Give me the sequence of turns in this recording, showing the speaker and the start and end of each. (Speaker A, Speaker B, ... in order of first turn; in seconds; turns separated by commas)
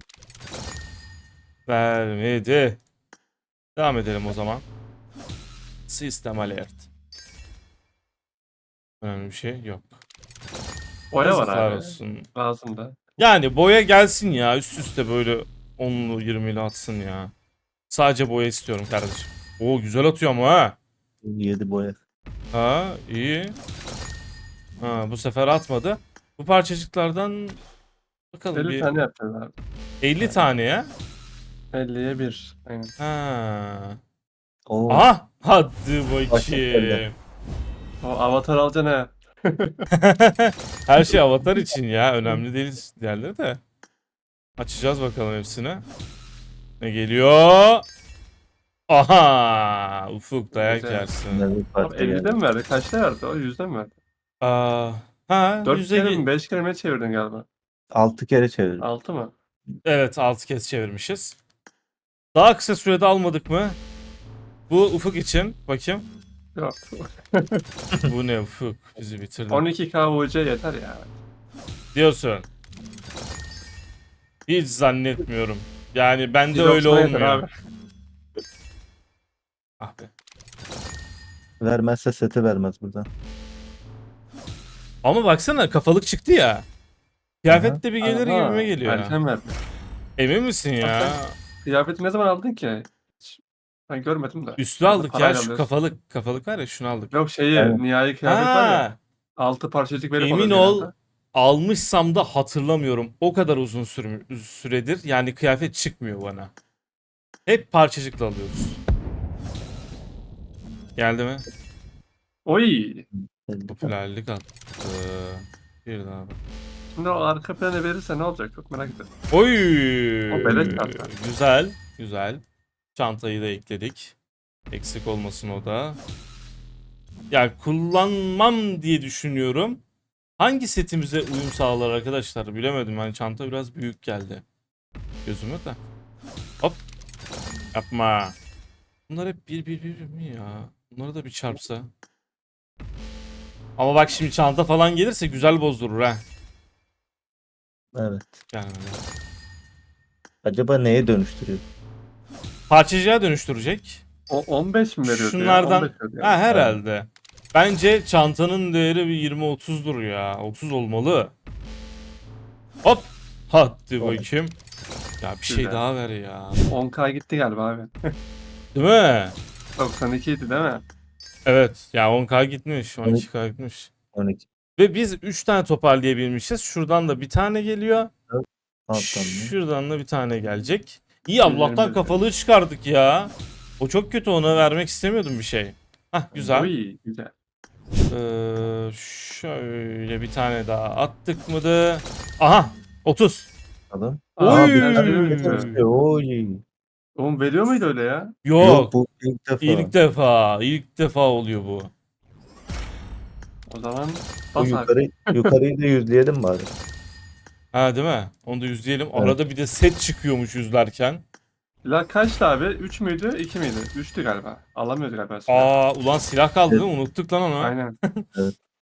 Speaker A: 1.7-2.8, Speaker A: 3.8-4.6, Speaker A: 5.9-6.8, Speaker A: 9.0-9.9, Speaker B: 11.1-13.0, Speaker A: 11.2-12.3, Speaker A: 13.2-17.3, Speaker A: 17.9-20.8, Speaker C: 21.2-22.0, Speaker A: 22.5-23.6, Speaker A: 24.8-27.6, Speaker A: 28.3-29.0, Speaker B: 28.5-29.5, Speaker A: 30.0-30.9, Speaker B: 31.7-32.9, Speaker A: 33.0-34.0, Speaker C: 34.7-35.1, Speaker A: 34.9-37.1, Speaker C: 36.3-37.0, Speaker B: 38.0-39.9, Speaker A: 39.9-43.6, Speaker A: 44.6-45.8, Speaker A: 46.8-47.9, Speaker A: 48.9-51.5, Speaker B: 50.5-51.1, Speaker C: 51.3-52.4, Speaker B: 51.8-54.0, Speaker A: 54.4-56.2, Speaker B: 55.6-57.5, Speaker C: 57.9-58.9, Speaker B: 58.8-59.3, Speaker A: 59.8-61.4, Speaker A: 62.3-63.8, Speaker A: 64.7-66.0, Speaker B: 66.5-67.6, Speaker A: 68.0-69.7, Speaker B: 69.5-71.1, Speaker A: 71.9-72.5, Speaker A: 74.5-77.4, Speaker B: 76.5-77.5, Speaker A: 79.8-80.1, Speaker C: 81.6-83.1, Speaker A: 85.0-86.7, Speaker A: 87.4-89.2, Speaker C: 87.5-87.8, Speaker B: 88.0-89.6, Speaker A: 90.2-91.4, Speaker B: 90.8-95.7, Speaker A: 94.6-97.1, Speaker B: 97.1-98.8, Speaker C: 97.5-97.8, Speaker A: 98.2-99.0, Speaker B: 99.4-100.9, Speaker A: 100.2-106.5, Speaker A: 107.5-108.8, Speaker A: 111.0-111.4, Speaker B: 112.5-113.0, Speaker C: 113.2-113.9, Speaker A: 113.7-116.4, Speaker B: 117.0-119.1, Speaker A: 119.3-122.4, Speaker B: 120.3-121.1, Speaker A: 122.9-124.1, Speaker A: 124.7-126.0, Speaker A: 127.3-129.8, Speaker A: 130.4-134.4, Speaker A: 135.2-135.8, Speaker A: 137.7-138.3, Speaker A: 139.1-141.9, Speaker A: 143.8-146.2, Speaker C: 147.9-148.4, Speaker A: 148.5-149.0, Speaker C: 150.4-151.6, Speaker A: 152.7-154.0, Speaker B: 154.3-156.4, Speaker A: 155.0-161.3, Speaker C: 156.5-156.8, Speaker A: 162.8-164.6, Speaker C: 164.0-164.3, Speaker A: 165.2-166.6, Speaker B: 165.5-165.8, Speaker B: 166.7-168.1, Speaker A: 168.7-169.4, Speaker B: 169.8-170.8, Speaker A: 171.4-173.9, Speaker C: 174.1-174.4, Speaker A: 174.8-178.1, Speaker C: 178.3-179.5, Speaker A: 178.9-186.7, Speaker B: 181.4-182.1, Speaker B: 186.4-187.3, Speaker A: 188.1-193.5, Speaker C: 193.9-196.6, Speaker B: 194.3-195.7, Speaker A: 194.4-195.8, Speaker B: 197.2-198.3, Speaker A: 198.4-198.9, Speaker C: 198.6-199.9, Speaker A: 199.6-201.9, Speaker B: 203.7-205.5, Speaker C: 204.6-206.7, Speaker A: 207.7-211.2, Speaker B: 211.8-215.7, Speaker A: 215.5-218.3, Speaker B: 217.6-217.9